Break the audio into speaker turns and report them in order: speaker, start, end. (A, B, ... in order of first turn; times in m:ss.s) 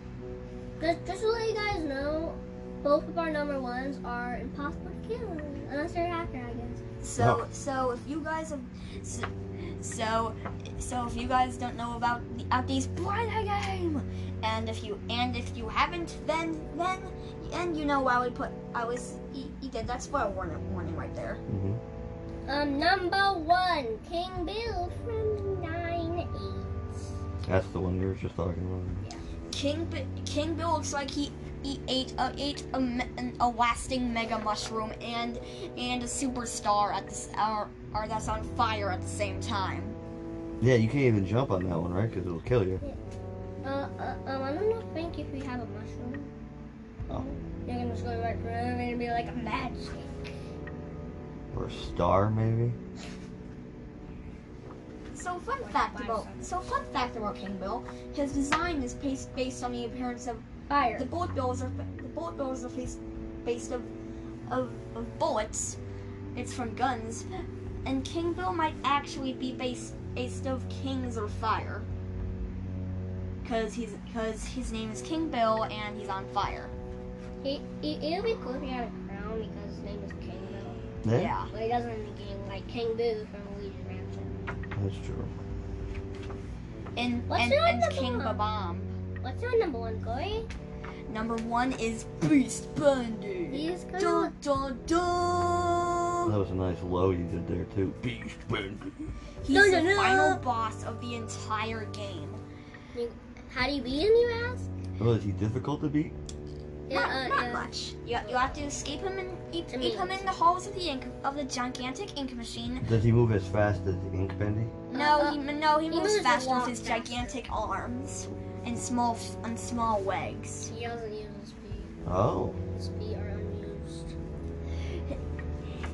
0:00.8-0:06.8 A
0:07.0-0:21.4 B
0:07.2-0:07.4 C
0:21.5-0:21.8 C
0:22.5-0:26.8 A
0:27.4-0:29.0 C
0:29.0-0:40.0 B
0:40.6-0:42.8 C
0:43.6-0:46.3 A
0:47.2-0:50.3 A
0:51.5-0:52.8 C
0:55.1-1:03.9 B
0:55.6-0:56.7 A
1:00.7-1:01.1 A
1:04.5-1:05.8 B
1:06.4-1:07.3 B
1:07.8-1:11.9 B
1:13.4-1:16.7 B
1:17.4-1:20.9 A
1:21.0-1:21.3 C
1:21.1-1:21.5 B
1:21.5-1:24.5 A
1:24.8-1:25.3 C
1:27.0-1:29.0 B
1:27.3-1:28.5 A
1:29.2-1:30.5 A
1:31.1-1:36.3 B
1:33.5-1:34.3 A
1:36.3-1:39.0 C
1:39.4-1:42.4 B
1:39.5-1:40.4 A
1:42.9-1:44.7 A
1:45.0-1:46.2 C
1:46.9-1:48.8 A
1:46.9-1:52.9 B
1:49.7-1:50.4 A
1:52.8-1:54.7 C
1:54.9-2:00.7 B
1:54.9-1:57.4 A
2:00.7-2:02.0 A
2:02.1-2:02.6 C
2:02.7-2:04.2 A